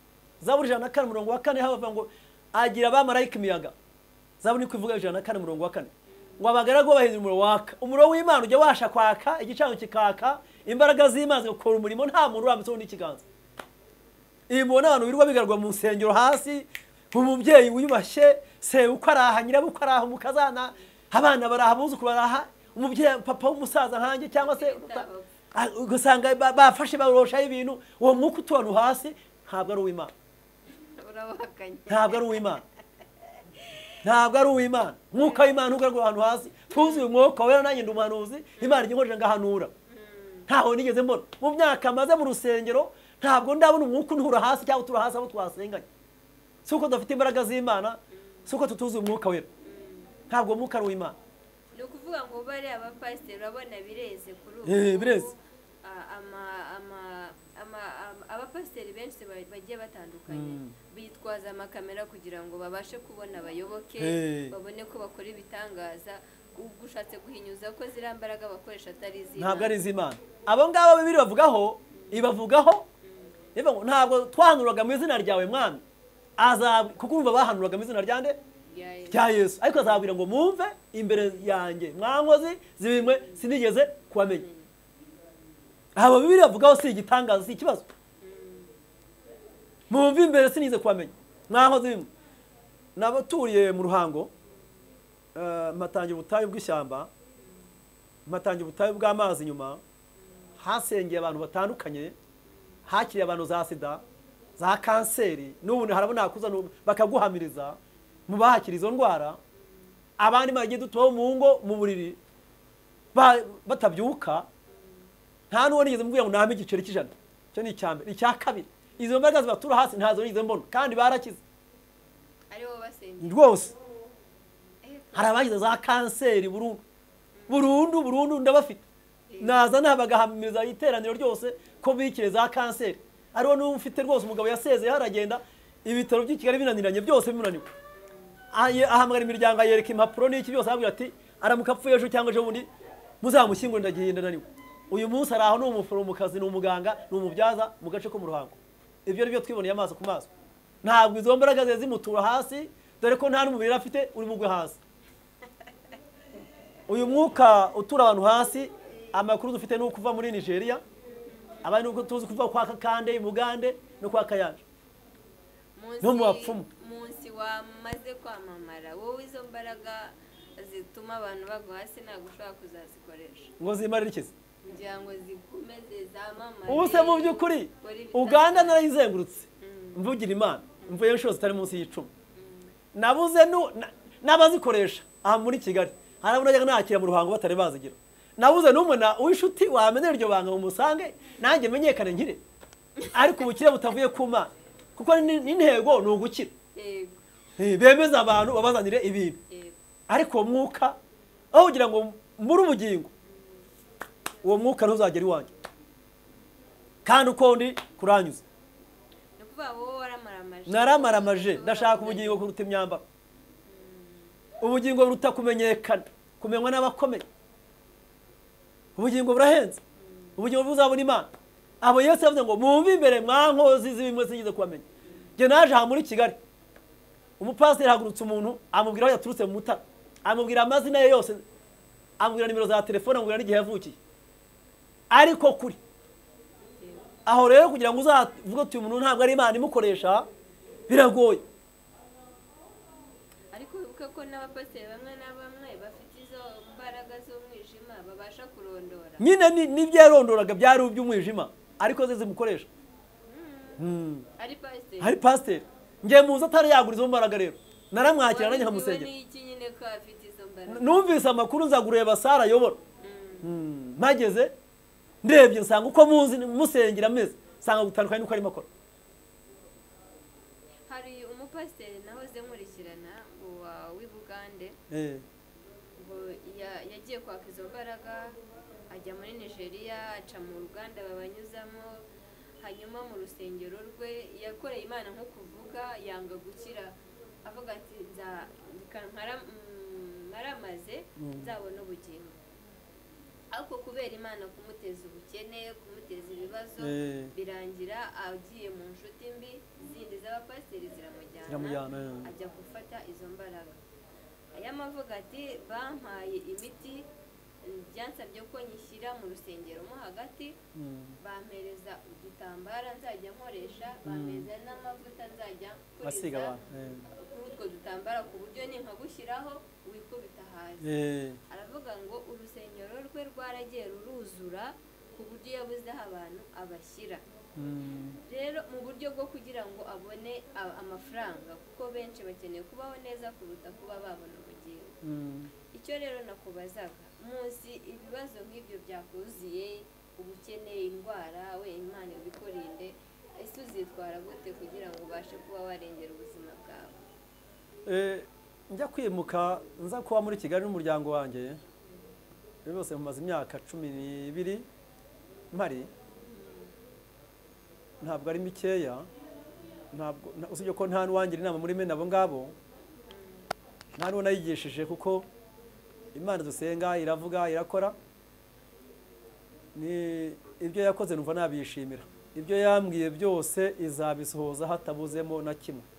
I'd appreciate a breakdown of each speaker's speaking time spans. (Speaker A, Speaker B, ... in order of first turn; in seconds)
Speaker A: 0.4-3.7, 4.4-13.2, 14.5-30.1, 31.9-32.6, 34.0-39.7, 40.5-45.9, 46.7-49.5, 50.3-51.2, 54.6-55.3, 60.3-60.8, 64.0-64.6, 69.4-72.9, 73.5-75.8, 76.4-78.4, 79.1-84.5, 86.0-87.9, 89.9-92.1, 93.0-94.3, 95.3-97.1, 98.3-99.8, 100.6-102.2, 102.9-104.0, 104.6-109.4, 110.2-112.2, 113.1-114.5, 115.5-121.4, 123.2-123.8, 125.1-126.8, 127.5-128.8, 129.4-137.7, 138.5-142.7, 143.2-150.3, 150.8-154.8, 156.9-160.8, 161.6-164.6, 166.0-166.7, 173.6-174.3, 176.7-182.1, 182.9-192.4, 193.1-196.5, 197.6-199.4, 200.1-201.0, 201.5-203.1, 204.4-205.5, 207.1-208.4, 210.7-213.0, 214.6-217.2, 219.0-219.8, 220.4-221.3, 221.8-224.9, 225.4-226.4, 227.4-231.4, 232.2-234.0, 235.1-235.8, 237.3-240.3, 240.9-241.4, 249.2-252.7, 253.8-254.3, 255.0-259.1, 260.7-262.8, 263.4-264.5, 265.2-268.7, 274.9-275.2, 291.2-291.5, 296.8-297.4, 301.5-302.3, 310.8-311.2, 314.1-314.5, 316.0-317.1, 320.8-321.4, 327.6-328.2, 335.0-335.5, 347.9-351.6, 352.6-354.7, 355.5-355.9, 358.0-359.1, 359.9-362.6, 364.0-365.3, 366.1-368.0, 369.8-375.9
Speaker B: 24.3-25.3, 30.7-32.6, 33.4-33.9, 35.2-35.6, 36.7-37.1, 38.6-38.9, 39.9-40.5, 48.1-48.5, 49.6-50.1, 51.7-69.8, 71.9-72.3, 73.0-73.5, 78.7-80.1, 81.1-81.5, 83.0-83.5, 84.2-84.7, 88.2-88.8, 102.5-102.8, 109.6-109.8, 114.7-115.1, 122.5-123.4, 124.8-125.5, 127.4-127.8, 129.3-129.6, 137.9-138.4, 161.3-161.7, 165.8-173.5, 174.6-178.8, 179.6-180.0, 182.3-182.7, 196.7-197.2, 199.5-199.8, 203.3-203.7, 209.4-212.4, 213.7-214.3, 220.0-220.4, 236.7-237.1, 243.5-249.3, 253.2-253.9, 254.4-255.2, 258.0-261.2, 263.0-263.5, 270.9-274.8, 276.0-282.0, 282.6-292.4, 293.5-303.8, 304.5-307.1, 307.6-310.6, 311.2-320.9, 321.5-327.2, 328.2-335.0, 335.7-347.0, 356.1-356.7, 363.1-363.5